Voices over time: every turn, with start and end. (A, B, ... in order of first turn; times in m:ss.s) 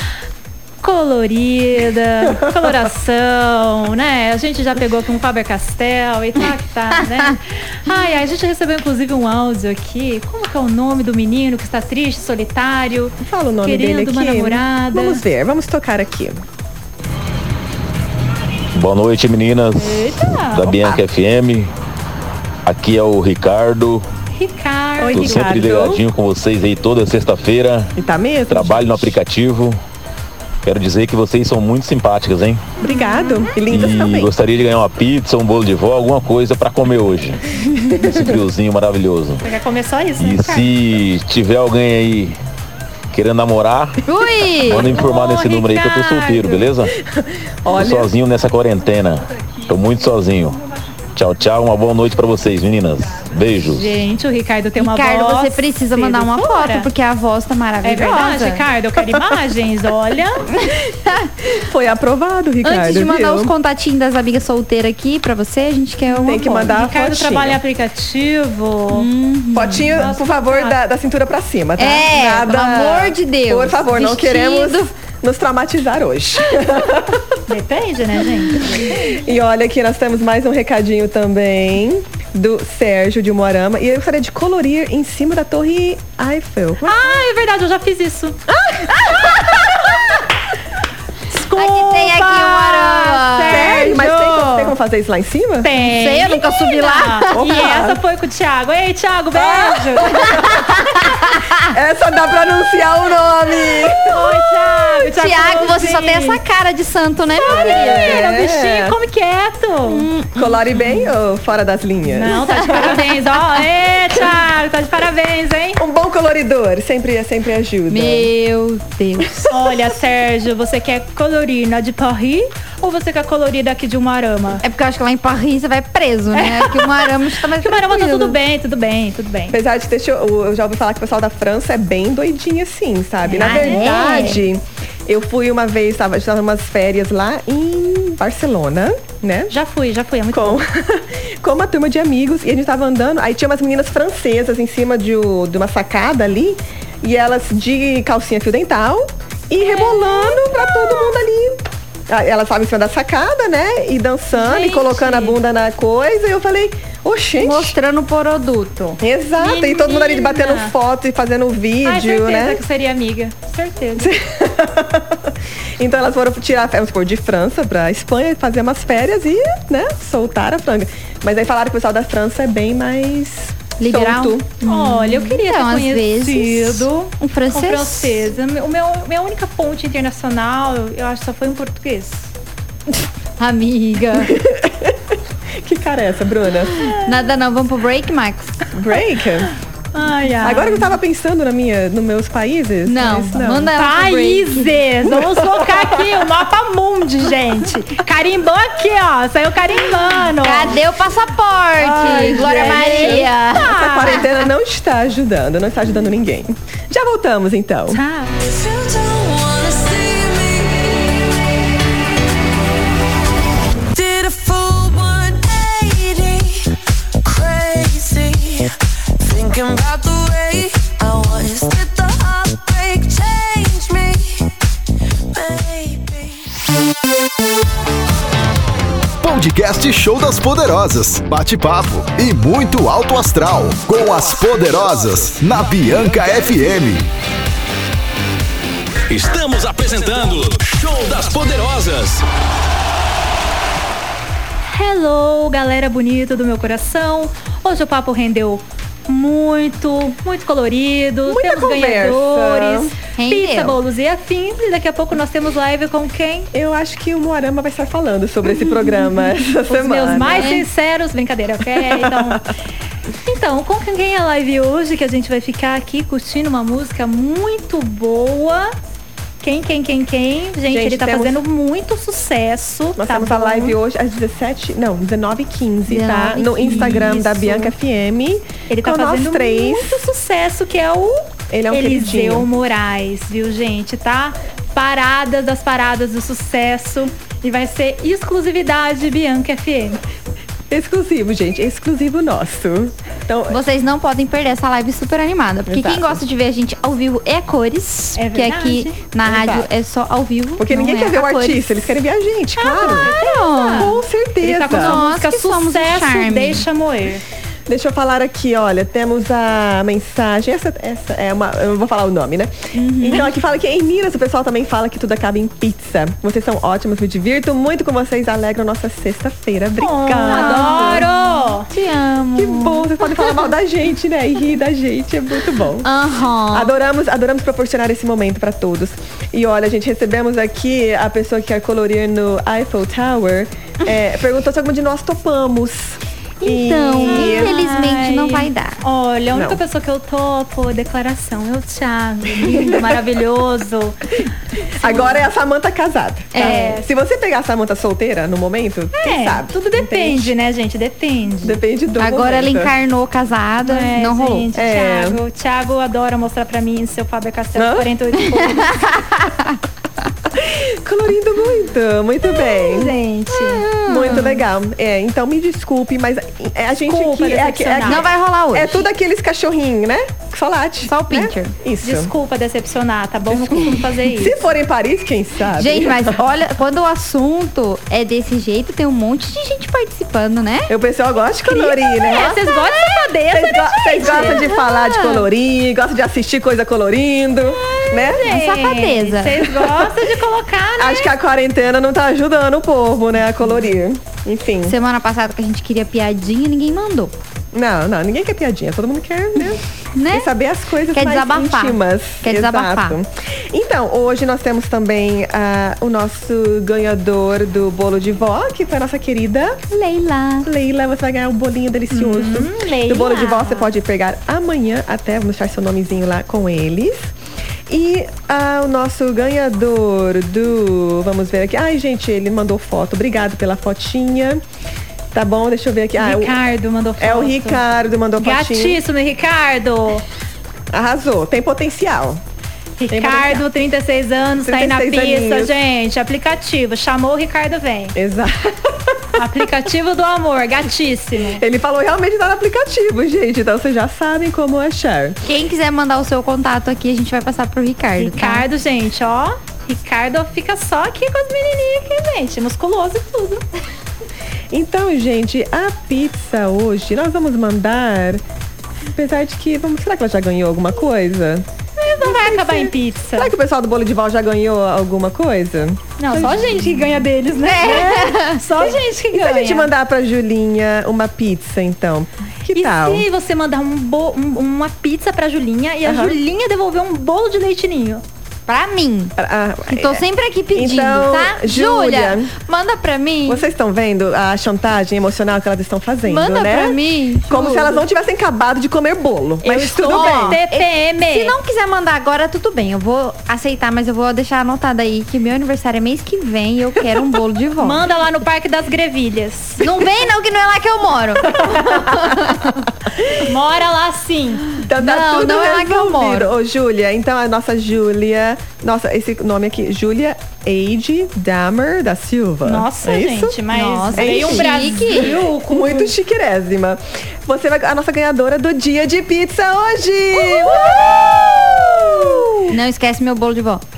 0:00.8-0:15.2 A
0:13.2-0:16.4 B
0:18.7-0:21.7 C
0:19.8-0:20.8 A
0:22.6-0:24.1 C
0:24.3-0:25.6 A
0:25.0-0:26.0 B
0:25.1-0:27.9 C
0:28.0-0:29.2 B
0:28.5-0:29.8 C
0:30.6-0:32.6 C
0:32.8-0:34.3 B
0:32.9-0:33.4 D
0:33.7-0:37.4 C
0:37.7-0:38.4 B
0:38.0-0:39.5 C
0:39.4-0:40.7 A
0:40.2-0:42.4 C
0:43.1-0:44.0 C
0:44.0-0:45.0 D
0:44.6-0:46.9 C
0:44.7-0:46.7 A
0:47.1-0:48.1 B
0:47.7-0:50.6 C
0:51.2-0:54.0 C
0:53.7-0:56.9 A
0:54.8-0:58.6 D
0:57.8-1:00.5 A
1:00.6-1:01.3 D
1:01.5-1:03.5 B
1:02.6-1:06.8 D
1:06.1-1:07.6 B
1:06.7-1:09.1 A
1:08.9-1:10.1 D
1:09.5-1:17.4 B
1:09.9-1:10.8 A
1:11.8-1:14.9 D
1:17.5-1:18.9 A
1:18.8-1:27.3 B
1:26.8-1:28.4 A
1:28.5-1:30.0 B
1:31.3-1:34.7 A
1:31.6-1:34.1 D
1:33.5-1:35.7 B
1:35.6-1:40.4 A
1:35.7-1:37.8 D
1:37.3-1:38.0 B
1:39.4-1:44.2 B
1:40.0-1:41.6 D
1:44.1-1:46.4 A
1:44.2-1:48.3 D
1:47.4-1:50.1 A
1:47.5-1:49.0 B
1:49.9-1:51.1 D
1:50.4-1:53.0 B
1:52.1-1:55.8 A
1:52.5-1:53.0 D
1:55.8-1:58.3 B
1:57.9-1:59.5 D
1:59.5-2:04.6 A
2:04.6-2:08.4 D
2:06.3-2:09.6 A
2:09.5-2:19.5 B
2:13.3-2:14.4 A
2:13.3-2:14.5 D
2:19.5-2:20.6 A
2:20.3-2:37.8 B
2:29.6-2:31.1 A
2:34.3-2:35.4 A
2:37.4-2:39.0 D
2:39.0-2:42.6 B
2:39.4-2:40.7 A
2:41.8-2:44.1 A
2:44.0-2:54.5 B
2:53.8-2:58.3 D
2:54.6-3:02.3 A
3:03.4-3:04.4 D
3:04.3-3:05.0 B
3:05.6-3:06.8 B
3:06.8-3:07.2 A
3:06.9-3:08.6 D
3:08.7-3:09.5 B
3:09.9-3:10.9 A
3:10.4-3:13.7 B
3:12.8-3:14.8 D
3:13.7-3:20.8 A
3:15.0-3:16.1 B
3:20.3-3:24.3 D
3:21.8-3:24.2 A
3:21.8-3:28.0 B
3:27.9-3:28.3 A
3:28.4-3:31.3 E
3:33.9-3:36.7 E
3:37.2-3:44.5 E
3:45.3-3:46.5 E
3:49.2-3:57.1 F
3:59.1-4:02.2 G
4:04.6-4:16.5 A
4:11.3-4:12.9 B
4:13.1-4:13.8 D
4:16.5-4:20.6 B
4:18.6-4:19.1 D
4:19.6-4:22.4 A
4:20.3-4:20.7 D
4:21.7-4:22.4 B
4:23.2-4:28.8 A
4:29.4-4:33.8 A
4:30.7-4:31.4 B
4:33.0-4:40.0 B
4:35.9-4:37.2 D
4:36.6-4:37.7 A
4:38.7-4:50.0 A
4:41.5-4:42.5 B
4:50.7-4:53.6 B
4:53.5-5:01.8 D
4:55.7-4:56.2 B
4:58.2-4:59.0 A
4:59.2-4:59.7 B
5:00.6-5:03.1 B
5:02.6-5:07.2 A
5:02.6-5:04.0 D
5:03.7-5:05.0 B
5:04.6-5:06.7 D
5:07.7-5:21.1 B
5:12.7-5:13.3 D
5:19.8-5:21.7 A
5:20.2-5:23.5 D
5:22.4-5:25.9 B
5:25.8-5:26.8 D
5:26.5-5:37.5 B
5:36.4-5:38.8 D
5:37.0-5:44.3 A
5:39.3-5:39.6 B
5:42.4-5:42.8 B
5:44.8-5:45.2 A
5:44.8-5:50.3 B
5:46.3-5:46.8 D
5:46.4-5:46.9 A
5:49.0-5:51.6 A
5:51.4-5:52.7 B
5:52.0-5:54.5 D
5:53.6-5:58.9 A
5:54.5-5:55.2 B
5:57.6-5:57.9 B
5:58.2-5:59.6 D
6:00.3-6:03.0 B
6:02.4-6:03.7 A
6:03.3-6:04.5 D
6:03.8-6:12.1 B
6:06.8-6:08.1 A
6:07.8-6:08.9 D
6:10.8-6:11.6 D
6:11.8-6:14.4 A
6:13.3-6:16.2 B
6:15.6-6:20.7 D
6:20.7-6:22.3 B
6:21.4-6:24.5 A
6:22.0-6:23.0 D
6:23.3-6:28.3 B
6:24.0-6:25.3 D
6:27.5-6:31.1 A
6:28.2-6:29.5 D
6:29.4-6:29.9 B
6:30.8-6:34.8 B
6:34.6-6:37.1 D
6:37.5-6:49.6 B
6:39.9-6:40.3 D
6:40.9-6:43.0 D
6:49.7-6:50.5 D
6:50.4-6:57.1 B
6:51.9-6:53.7 A
6:57.7-7:04.4 B
7:05.1-7:06.4 B
7:06.0-7:07.6 A
7:07.0-7:08.8 B
7:08.2-7:10.0 A
7:10.7-7:12.2 B
7:12.8-7:18.0 A
7:12.9-7:13.4 B
7:14.4-7:15.5 B
7:18.0-7:19.0 B
7:19.2-7:21.4 A
7:21.4-7:25.2 B
7:25.2-7:28.5 D
7:28.0-7:33.4 A
7:34.5-7:38.2 B
7:38.9-7:41.5 B
7:41.8-7:43.3 A
7:42.0-7:46.6 B
7:46.0-7:49.7 A
7:47.4-7:48.4 D
7:47.6-7:53.0 B
7:52.5-7:58.0 A
7:55.8-7:56.2 B
7:58.5-7:59.2 D
7:59.2-8:00.0 B
7:59.7-8:03.4 D
8:00.5-8:02.3 B
8:03.3-8:06.8 B
8:06.1-8:07.8 D
8:07.3-8:10.4 B
8:09.4-8:11.4 A
8:09.7-8:17.8 D
8:17.6-8:19.9 A
8:19.6-8:22.6 D
8:21.3-8:22.2 B
8:23.2-8:24.5 A
8:24.6-8:33.4 B
8:24.7-8:26.3 D
8:32.4-8:35.9 A
8:33.5-8:35.2 D
8:33.9-8:42.5 B
8:40.2-8:41.0 D
8:41.9-8:43.6 D